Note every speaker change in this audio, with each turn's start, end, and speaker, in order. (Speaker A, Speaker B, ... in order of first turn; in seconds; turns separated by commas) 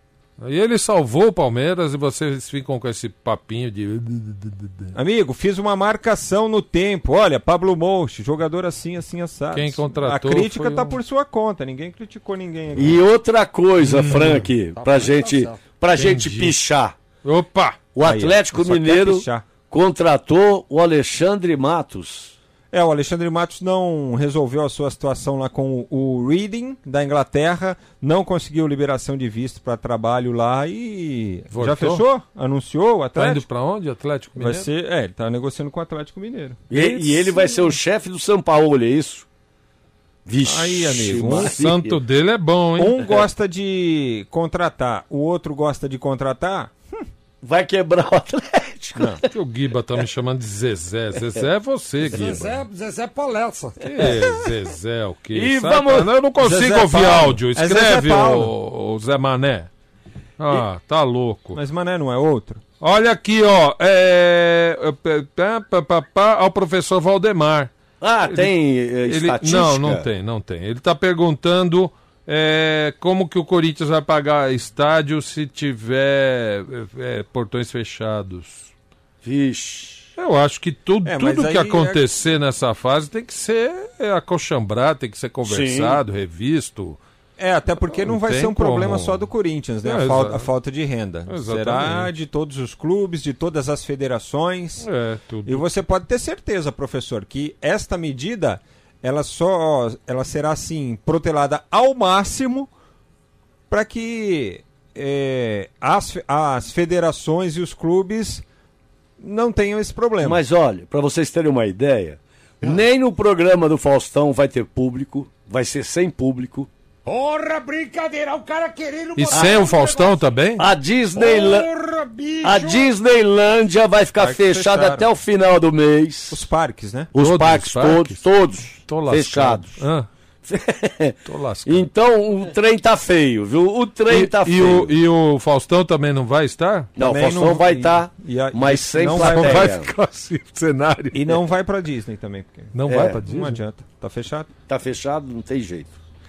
Speaker A: 0.4-4.9, Speaker B: 4.9-13.0, Speaker A: 9.5-10.9, Speaker C: 12.8-16.9, Speaker A: 13.8-14.5, Speaker D: 14.8-15.6, Speaker A: 15.9-16.5, Speaker A: 17.2-17.8, Speaker C: 17.9-22.3, Speaker B: 18.0-19.4, Speaker B: 22.7-33.4, Speaker A: 31.5-32.0, Speaker A: 33.1-34.7, Speaker B: 34.4-37.3, Speaker C: 36.7-39.3, Speaker C: 40.2-42.0, Speaker B: 40.4-41.5, Speaker A: 41.2-43.0, Speaker B: 42.8-46.7, Speaker C: 47.4-49.2, Speaker A: 49.3-52.6, Speaker D: 52.1-53.8, Speaker A: 53.8-59.7, Speaker C: 55.3-56.1, Speaker B: 56.4-58.5, Speaker A: 60.4-61.6, Speaker B: 61.5-62.6, Speaker A: 62.8-67.7, Speaker C: 68.0-70.0, Speaker A: 69.0-78.7, Speaker C: 79.2-80.1, Speaker A: 80.2-87.0, Speaker B: 81.0-82.0, Speaker C: 85.4-86.0, Speaker B: 87.4-94.9, Speaker A: 88.0-89.3, Speaker A: 89.8-90.5, Speaker A: 91.3-92.1, Speaker A: 94.8-95.7, Speaker B: 95.5-102.7, Speaker B: 103.7-108.4, Speaker B: 109.2-110.4, Speaker C: 110.2-116.7, Speaker D: 117.1-120.2, Speaker A: 119.2-120.7, Speaker C: 119.3-119.7, Speaker C: 120.6-121.7, Speaker D: 121.2-122.9, Speaker C: 122.4-126.4, Speaker B: 124.2-125.1, Speaker B: 126.3-127.1, Speaker C: 127.1-129.8, Speaker A: 127.2-128.2, Speaker A: 128.8-130.1, Speaker C: 130.4-134.9, Speaker A: 131.2-131.9, Speaker A: 134.1-136.9, Speaker C: 137.0-139.9, Speaker B: 137.0-139.7, Speaker A: 139.1-141.4, Speaker B: 141.1-144.5, Speaker A: 142.7-143.6, Speaker C: 142.9-143.2, Speaker C: 144.7-146.0